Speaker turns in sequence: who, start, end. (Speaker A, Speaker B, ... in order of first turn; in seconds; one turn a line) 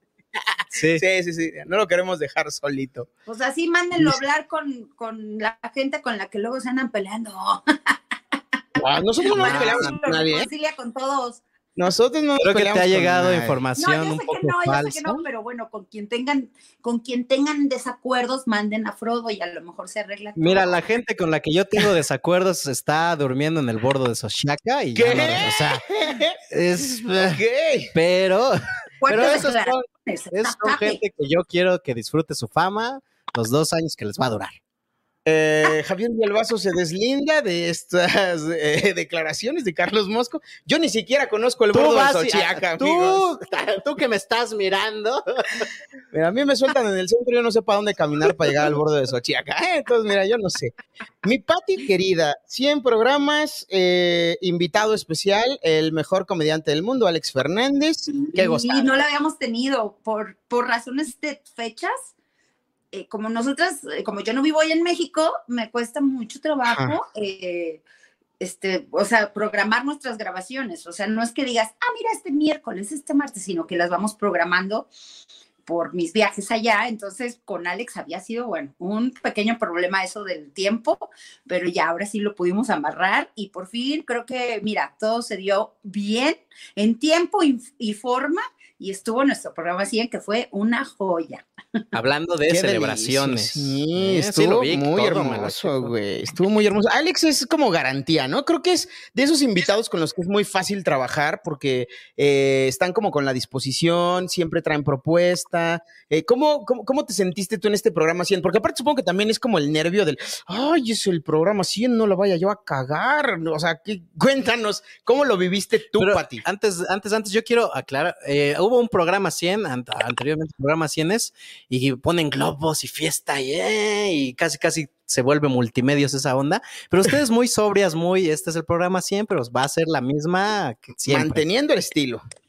Speaker A: 0.7-1.0
Speaker B: 0.9-3.1
Speaker C: 3.3-7.9
Speaker B: 8.8-10.5
Speaker C: 9.3-11.4
Speaker A: 9.3-9.9
Speaker B: 11.8-13.6
Speaker A: 12.4-15.2
Speaker C: 13.8-20.8
Speaker A: 20.4-25.8
Speaker B: 24.9-26.4
Speaker A: 26.5-27.4
Speaker B: 27.2-27.9
Speaker A: 27.9-34.6
Speaker C: 29.0-31.0
Speaker B: 35.2-43.2
Speaker A: 41.7-45.6
Speaker B: 46.1-59.0
Speaker C: 58.1-62.1
Speaker C: 62.9-67.8
Speaker B: 66.7-67.0
Speaker C: 68.4-74.9
Speaker C: 75.7-91.4
Speaker A: 91.9-95.9
Speaker B: 92.5-116.4
Speaker A: 116.0-131.4
Speaker B: 131.0-132.2